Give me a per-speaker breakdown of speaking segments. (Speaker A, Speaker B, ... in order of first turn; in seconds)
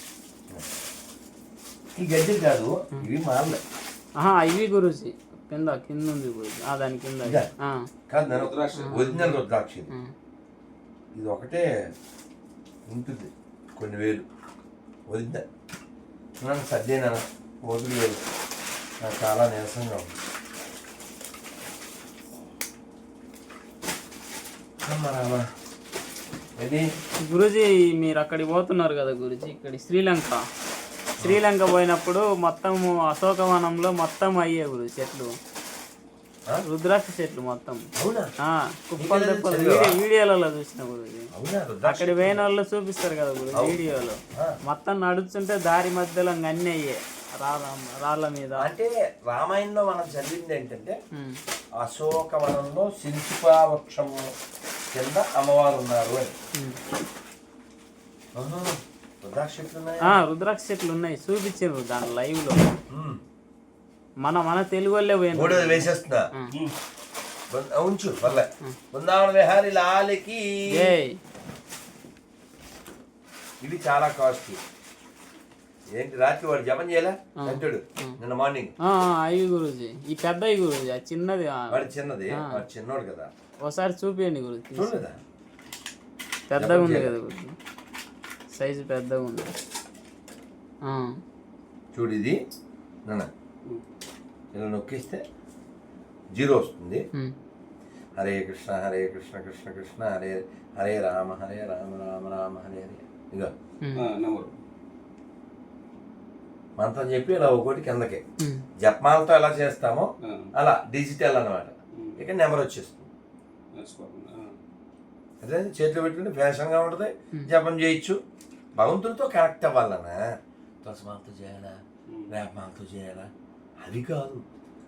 Speaker A: 2.0-3.6, 8.1-9.9, 11.2-11.7, 12.9-14.2, 15.1-15.4, 16.4-18.2, 19.0-20.1, 24.9-25.4, 26.6-26.8, 38.0-38.3, 39.0-40.0, 41.3-42.4, 48.6-51.0, 51.8-54.3, 54.9-56.3, 58.3-60.2, 62.9-63.2, 65.3-66.3, 67.5-70.9, 73.6-74.6, 76.0-78.7, 81.7-83.3, 84.8-85.2, 86.6-87.1, 91.9-92.3, 94.5-95.2, 96.3-97.0, 98.2-103.5, 106.8-108.2, 108.8-113.1, 115.4-118.2, 118.8-120.2, 120.8-123.3, 123.8-124.5
Speaker B: 4.2-7.8, 8.8-9.3, 27.3-30.4, 31.2-35.3, 36.7-37.9, 38.4-41.3, 41.9-48.7, 51.1-51.4, 60.1-62.8, 64.2-66.5, 68.3-68.8, 70.7-71.2, 77.4-78.2, 78.8-82.6, 83.6-85.0, 86.5-87.5, 88.5-89.5, 90.8-91.2, 103.8-104.1
Speaker C: 8.2-9.3, 104.0-104.5, 110.2-110.5, 112.0-112.2, 113.8-114.6, 122.1-122.4